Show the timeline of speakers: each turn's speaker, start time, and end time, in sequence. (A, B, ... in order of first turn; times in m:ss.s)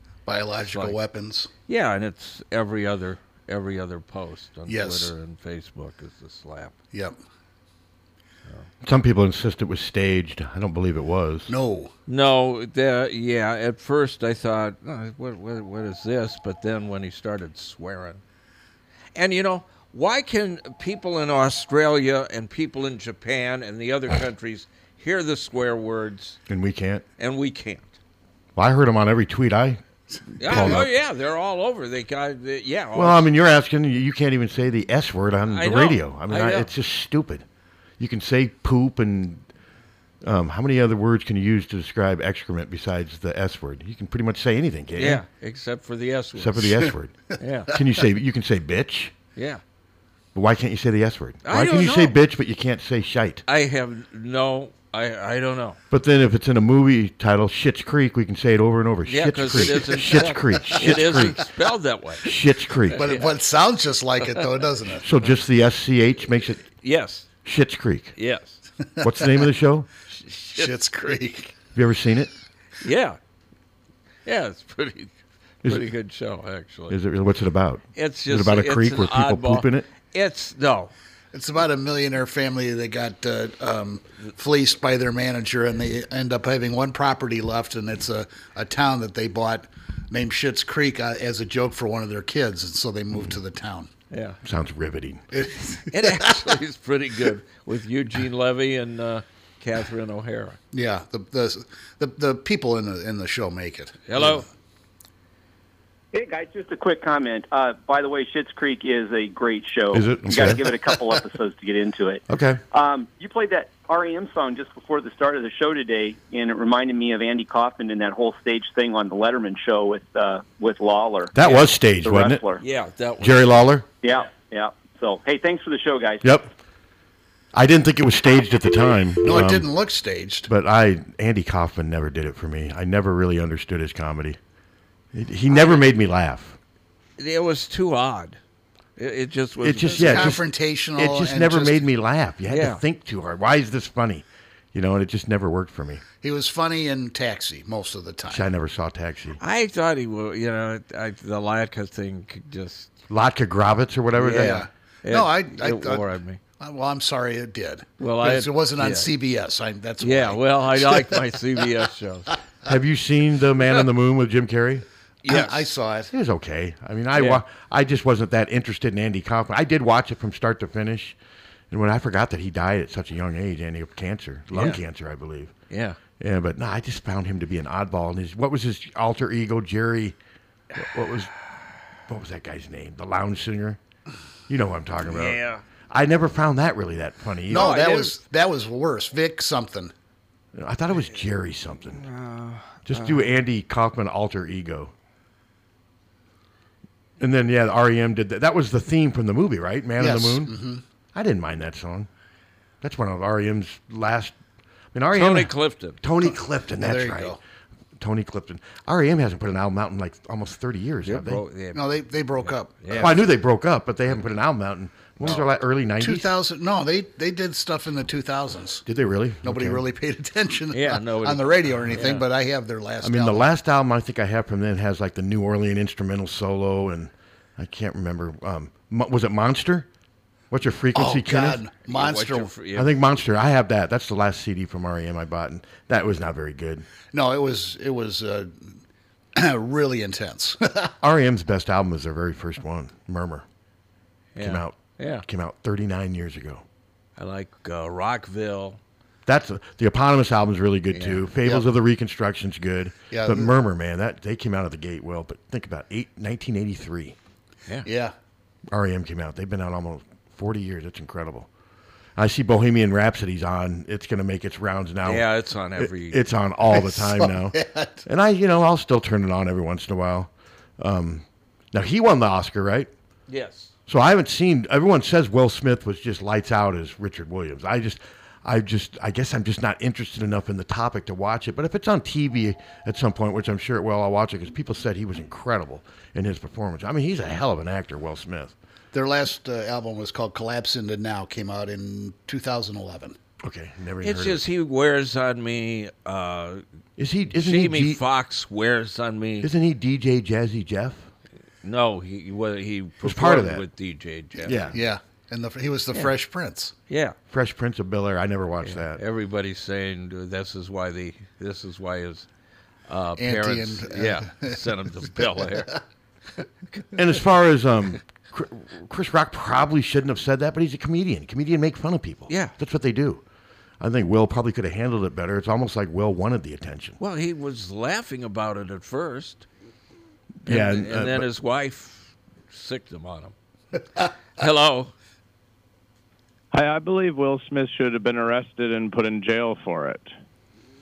0:00.2-0:01.5 A
0:00.7-0:01.0 B
0:01.7-0:06.7 B
0:04.7-0:05.1 A
0:08.8-0:11.5 C
0:11.5-0:11.9 A
0:12.1-0:18.2 B
0:19.1-0:26.4 B
0:26.5-0:27.0 C
0:27.2-0:27.9 B
0:28.6-0:29.8 C
0:30.4-0:33.3 B
0:30.4-0:30.9 C
0:30.5-0:30.8 A
0:32.9-0:37.4 C
0:35.5-0:36.7 B
0:38.0-0:39.4 C
0:40.2-0:45.2 C
0:45.0-0:46.7 B
0:46.4-0:47.2 C
0:47.4-0:47.7 B
0:47.7-0:49.1 C
0:49.4-0:49.6 B
0:50.3-0:53.4 C
0:51.4-0:52.2 B
0:53.5-0:55.8 B
0:55.9-1:01.5 C
0:59.0-1:02.3 B
1:02.2-1:03.0 C
1:02.9-1:03.3 B
1:03.0-1:05.0 A
1:05.0-1:06.6 C
1:06.8-1:07.3 B
1:07.4-1:08.1 C
1:08.2-1:08.6 B
1:09.0-1:09.9 C
1:10.1-1:11.1 B
1:10.5-1:11.5 A
1:11.7-1:12.3 C
1:12.8-1:13.2 B
1:14.2-1:15.1 B
1:15.6-1:17.0 B
1:16.9-1:19.9 C
1:17.9-1:20.9 B
1:21.3-1:33.9 A
1:34.1-1:34.4 B
1:34.4-1:35.2 C
1:35.3-1:36.4 A
1:35.9-1:40.6 B
1:40.7-1:44.4 A
1:44.1-1:44.4 B
1:46.1-2:01.4 D
1:49.9-1:50.9 C
1:52.3-1:52.6 C
2:01.3-2:02.4 C
2:02.0-2:02.6 D
2:02.6-2:03.6 B
2:03.2-2:03.8 C
2:04.0-2:06.3 D
2:06.2-2:06.5 C
2:07.5-2:09.7 C
2:09.2-2:10.5 A
2:10.5-2:14.4 C
2:15.1-2:16.6 C
2:17.2-2:18.4 B
2:19.0-2:20.4 B
2:19.6-2:26.0 C
2:19.9-2:21.8 A
2:22.5-2:22.8 B
2:26.2-2:28.4 A
2:28.3-2:29.4 C
2:29.4-2:32.9 B
2:33.1-2:34.6 C
2:34.2-2:36.4 B
2:34.3-2:36.1 A
2:36.6-2:41.3 A
2:38.0-2:39.1 B
2:40.0-2:42.3 B
2:42.6-2:44.8 C
2:45.2-2:45.6 B
2:45.2-2:46.1 A
2:46.1-2:51.2 C
2:47.1-2:47.4 B
2:51.7-2:55.5 C
2:54.5-2:54.8 B
2:55.7-2:56.0 B
2:56.2-3:00.2 C
3:00.8-3:01.3 C
3:02.1-3:03.8 C
3:04.5-3:05.4 C
3:05.0-3:05.6 B
3:05.9-3:07.8 C
3:07.5-3:09.9 A
3:07.5-3:08.2 B
3:10.5-3:12.0 C
3:11.9-3:13.3 B
3:12.8-3:14.9 C
3:17.2-3:20.5 C
3:20.0-3:20.8 A
3:21.1-3:22.1 C
3:22.8-3:24.4 C
3:24.9-3:27.4 C
3:25.1-3:26.0 B
3:26.3-3:27.4 A
3:28.0-3:31.4 C
3:31.0-3:31.8 B
3:31.7-3:33.2 A
3:32.4-3:33.2 B
3:33.0-3:36.3 C
3:36.0-3:38.8 A
3:38.8-3:39.8 C
3:39.4-3:43.5 A
3:40.7-3:42.2 B
3:43.0-3:49.9 C
3:50.5-3:51.6 C
3:50.9-3:52.5 A
3:51.8-3:52.9 B
3:52.7-3:56.9 C
3:57.1-3:58.8 A
3:59.3-4:00.9 A
4:01.0-4:03.4 C
4:04.3-4:05.2 B
4:04.4-4:06.6 C
4:07.2-4:08.8 B
4:09.2-4:17.2 C
4:10.9-4:11.3 B
4:13.1-4:13.5 A
4:17.8-4:18.1 A
4:18.7-4:21.5 C
4:22.2-4:32.9 C
4:25.0-4:26.2 B
4:26.7-4:28.0 A
4:33.3-4:33.7 B
4:33.9-4:48.5 C
4:48.9-4:53.2 A
4:53.4-4:54.4 C
4:54.0-4:56.6 B
4:57.0-4:58.0 C
4:57.3-4:59.5 B
4:59.4-5:01.1 C
5:01.6-5:04.7 B
5:03.0-5:03.6 C
5:04.4-5:04.8 C
5:04.7-5:06.7 A
5:06.9-5:07.2 B
5:07.3-5:09.0 C
5:08.6-5:12.3 B
5:12.9-5:15.7 B
5:13.2-5:14.6 A
5:15.1-5:15.5 A
5:16.9-5:23.2 C
5:22.3-5:22.5 B
5:23.8-5:27.0 C
5:27.0-5:29.4 B
5:30.4-5:31.3 C
5:30.5-5:33.3 B
5:34.4-5:34.9 B
5:36.5-5:40.1 E